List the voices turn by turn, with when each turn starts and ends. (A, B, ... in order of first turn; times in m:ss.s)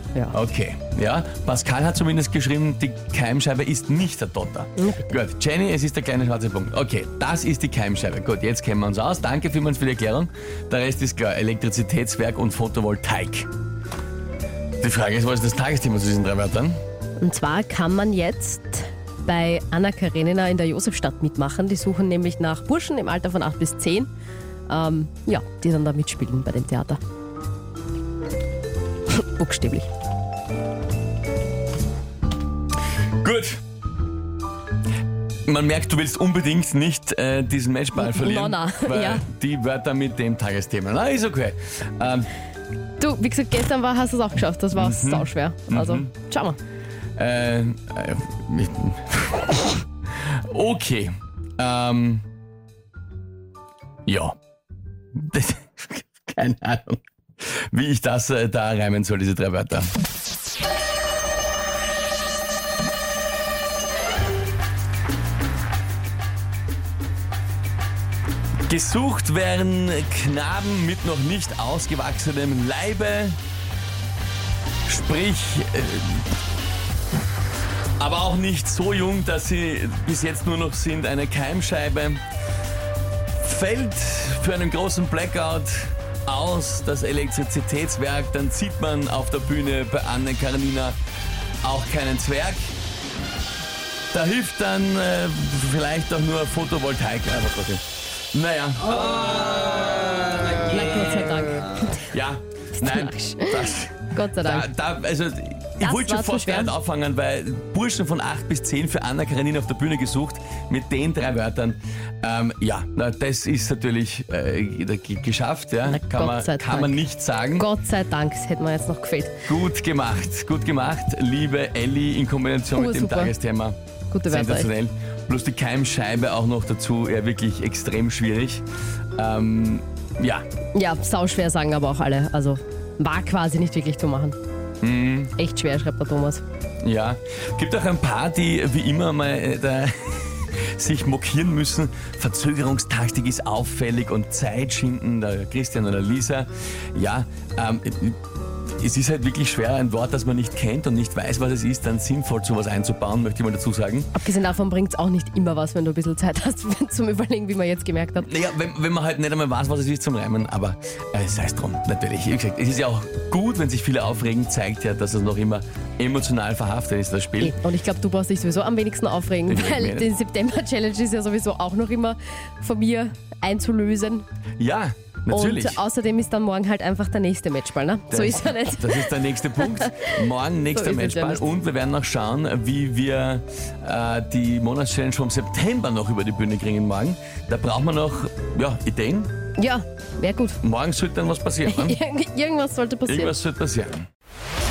0:00.3-0:13.5 A
0:04.8-0:05.2 B
0:14.8-0:16.8 A
0:17.2-0:24.1 B
0:24.7-0:27.0 B
0:29.1-0:29.9 B
0:33.2-0:33.6 A
0:35.4-0:42.3 A
0:38.0-0:39.2 B
0:43.0-0:46.6 B
0:44.8-0:46.1 A
0:47.2-0:52.2 A
0:54.1-0:54.4 A
0:55.1-0:59.9 A
1:08.7-1:13.4 A
1:14.9-1:16.3 A
1:18.0-1:22.2 A
1:23.4-1:31.0 A
1:31.6-1:32.7 A
1:34.1-1:37.8 A
1:38.3-1:41.4 A
1:40.6-1:42.0 B
1:41.9-1:57.7 A
1:42.8-1:44.7 B
1:45.8-1:46.8 B
1:55.9-1:57.0 B
1:57.6-1:59.4 B
1:59.5-2:03.8 A
2:02.8-2:03.3 B
2:04.1-2:04.7 B
2:04.3-2:08.6 A
2:09.2-2:10.5 A
2:10.7-2:14.4 B
2:14.8-2:15.3 A
2:15.4-2:16.4 B
2:16.8-2:28.2 A
2:28.8-2:34.1 A
2:34.2-2:38.3 B
2:38.2-2:47.6 A
2:47.4-2:54.2 B
2:49.5-2:50.1 A
2:54.6-2:55.8 A
2:55.3-3:00.1 B
2:58.1-3:09.3 A
3:00.7-3:01.4 B
3:09.6-3:10.6 B
3:10.6-3:12.0 A
3:11.7-3:13.4 B
3:13.1-3:14.1 A